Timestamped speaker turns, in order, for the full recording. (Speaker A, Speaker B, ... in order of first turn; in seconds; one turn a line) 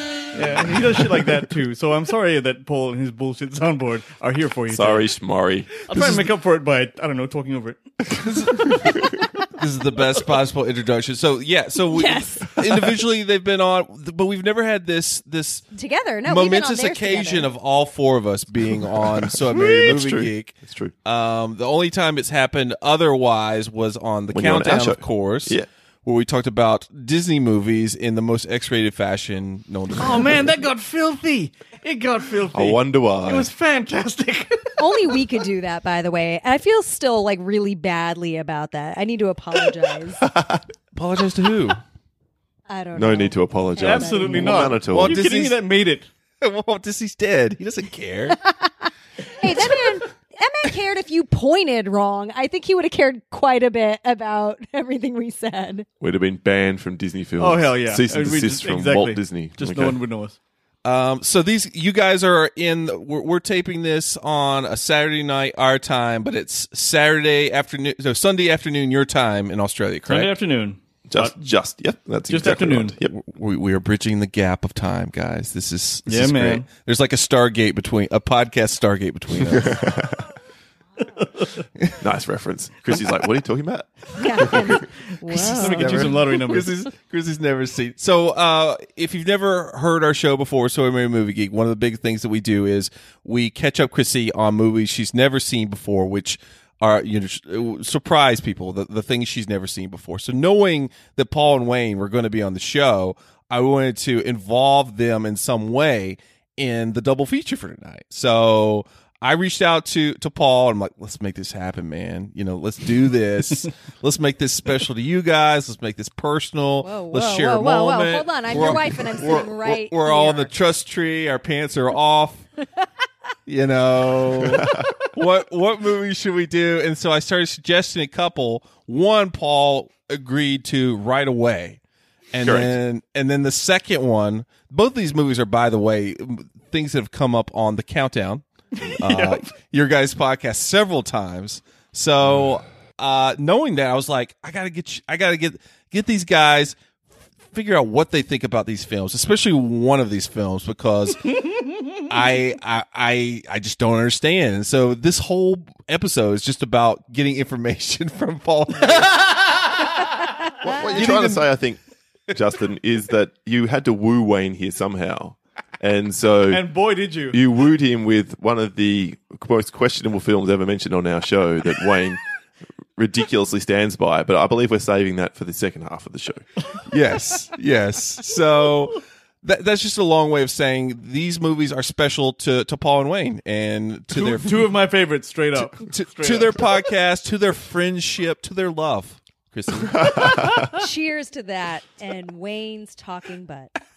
Speaker A: 0.3-5.1
Speaker B: 0.3-1.3
Speaker B: 4.7-6.2
Speaker A: 5.9-7.8
Speaker C: 8.2-9.0
Speaker C: 9.5-15.7
Speaker D: 11.9-12.5
Speaker D: 15.7-17.5
Speaker C: 16.2-30.5
Speaker B: 19.4-20.9
Speaker B: 24.3-25.7
Speaker A: 30.0-35.2
Speaker B: 32.5-33.5
Speaker D: 34.8-40.2
Speaker B: 40.2-40.6
Speaker C: 40.9-41.8
Speaker D: 42.7-44.8
Speaker B: 42.9-45.1
Speaker A: 43.8-46.1
Speaker C: 44.9-45.6
Speaker C: 46.4-48.4
Speaker D: 49.4-55.9
Speaker B: 56.0-60.0
Speaker A: 57.4-60.4
Speaker C: 60.8-70.3
Speaker A: 70.1-71.3
Speaker B: 71.1-73.1
Speaker A: 72.3-72.9
Speaker C: 73.1-79.9
Speaker A: 76.1-76.7
Speaker B: 79.4-80.2
Speaker A: 81.2-81.5
Speaker B: 82.0-84.7
Speaker D: 84.2-86.0
Speaker A: 85.3-86.9
Speaker C: 85.4-122.5
Speaker D: 116.8-120.5
Speaker C: 123.5-131.8
Speaker C: 132.3-146.8
Speaker B: 132.4-132.7
Speaker A: 138.8-139.4
Speaker C: 147.5-151.3
Speaker C: 152.1-159.2
Speaker B: 160.6-161.8
Speaker C: 160.7-161.5
Speaker B: 162.3-166.6
Speaker A: 166.5-167.4
Speaker B: 167.3-172.2
Speaker B: 172.9-176.4
Speaker C: 176.9-184.7
Speaker A: 184.1-186.7
Speaker C: 185.6-190.5
Speaker B: 189.9-190.7
Speaker D: 190.7-193.7